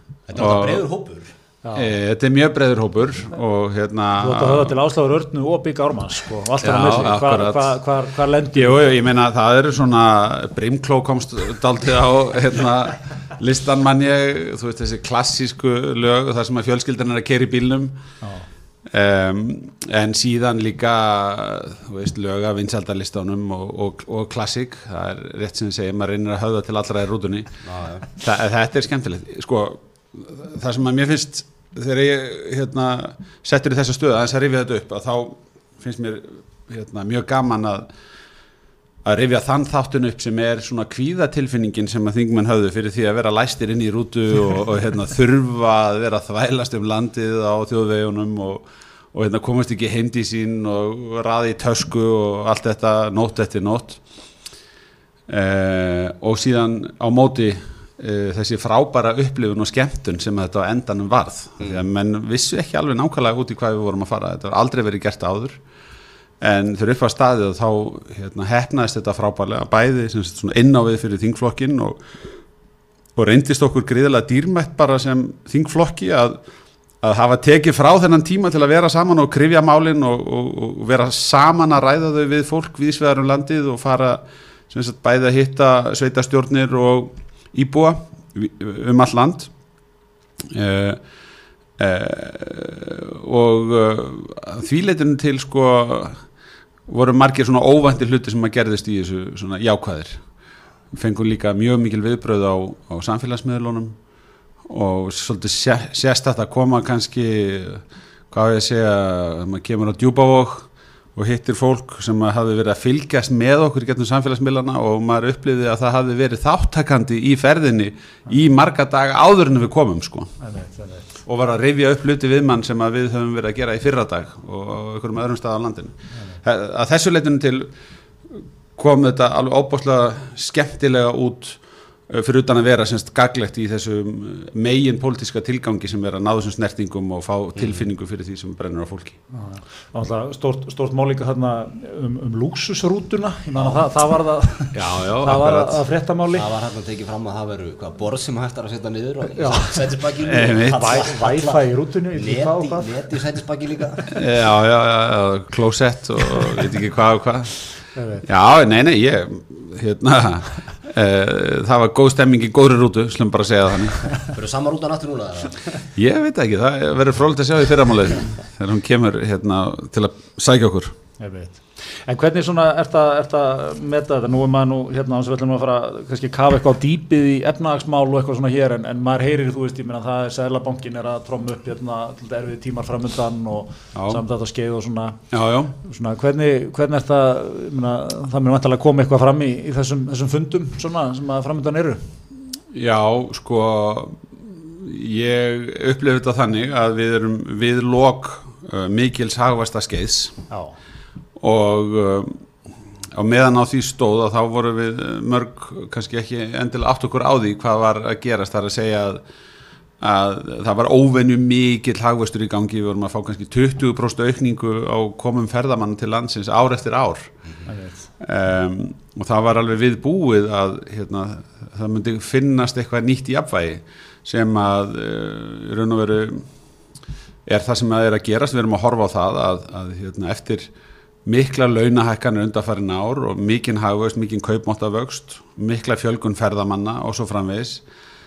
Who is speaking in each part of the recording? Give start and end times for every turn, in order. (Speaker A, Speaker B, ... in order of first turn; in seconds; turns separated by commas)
Speaker A: 0.3-1.3, Speaker B: 0.3-0.9, Speaker C: 1.6-1.9, Speaker B: 1.7-4.8, Speaker C: 4.2-8.8, Speaker B: 6.6-7.7, Speaker B: 8.5-18.0, Speaker C: 18.2-18.5, Speaker B: 18.9-37.9, Speaker A: 27.6-28.1, Speaker B: 39.0-54.0, Speaker B: 55.3-65.6, Speaker B: 66.4-72.0, Speaker B: 73.2-76.4, Speaker B: 77.0-89.5, Speaker B: 90.5-91.0, Speaker B: 91.8-96.2, Speaker B: 96.9-100.2, Speaker B: 100.9-104.0, Speaker B: 104.7-120.3, Speaker C: 120.4-121.1, Speaker B: 121.2-127.7, Speaker B: 128.3-139.2, Speaker A: 137.6-137.8, Speaker C: 139.3-146.5, Speaker A: 143.6-143.8, Speaker B: 144.7-145.8, Speaker A: 146.3-154.1, Speaker C: 149.3-149.9, Speaker B: 150.2-150.8, Speaker C: 150.6-152.9, Speaker B: 154.1-157.6, Speaker C: 157.9-158.2, Speaker B: 158.2-164.2, Speaker A: 164.3-165.7, Speaker B: 165.9-170.9, Speaker C: 171.2-185.2, Speaker B: 183.9-184.2, Speaker B: 185.3-185.7, Speaker C: 185.8-192.0, Speaker B: 192.7-200.3, Speaker C: 200.5-200.8, Speaker B: 201.4-202.4, Speaker B: 203.1-209.2, Speaker B: 210.0-217.3, Speaker C: 217.7-218.1, Speaker B: 218.2-226.5, Speaker B: 227.4-230.7, Speaker B: 231.2-237.8